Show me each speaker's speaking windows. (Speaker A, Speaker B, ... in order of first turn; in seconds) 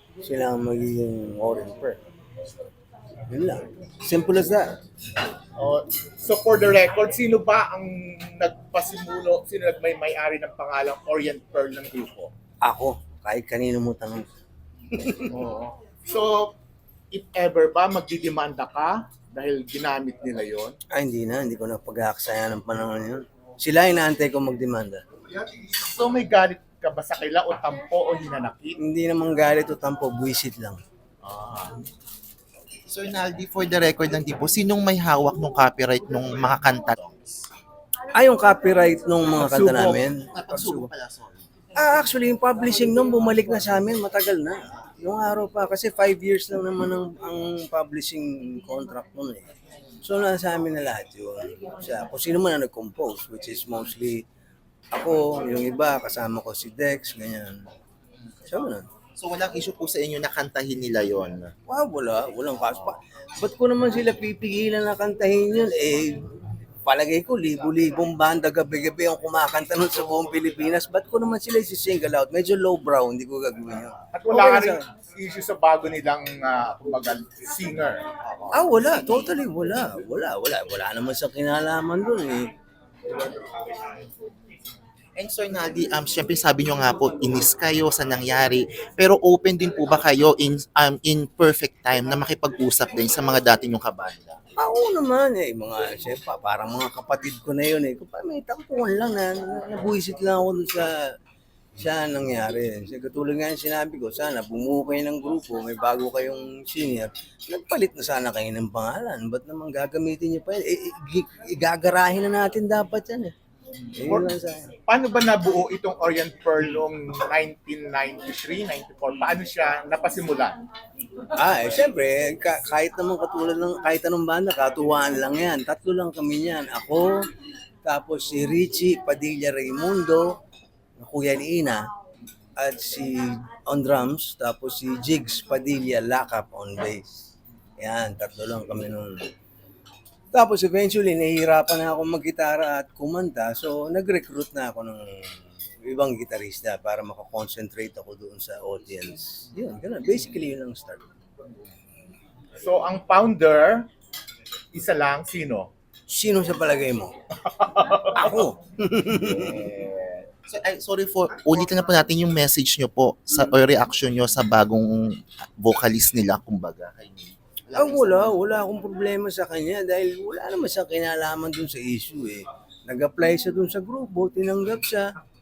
Speaker A: 0.2-2.0, 3.3-4.8, 12.6-14.3, 14.9-15.4, 20.9-25.0, 28.8-30.8, 38.1-40.9, 41.8-49.4, 50.0-54.2, 54.9-57.6, 58.5-58.9, 61.7-66.3, 66.8-74.8, 78.5-82.5, 94.6-101.0, 101.8-113.3, 114.0-114.7, 121.3-127.1, 127.8-130.4, 131.0-131.8, 132.6-137.1, 137.8-139.2, 140.3-151.0, 156.1-157.1, 158.1-159.7, 167.7-175.1
Speaker B: 5.6-12.3, 15.3-16.6, 17.1-20.8, 25.4-28.8, 74.1-78.1, 114.0-114.3, 114.8-120.5, 152.6-153.8, 154.7-155.7, 157.5-158.3
Speaker C: 31.2-31.8, 32.9-37.3, 39.3-41.4, 59.1-61.5, 85.2-94.4, 159.5-168.4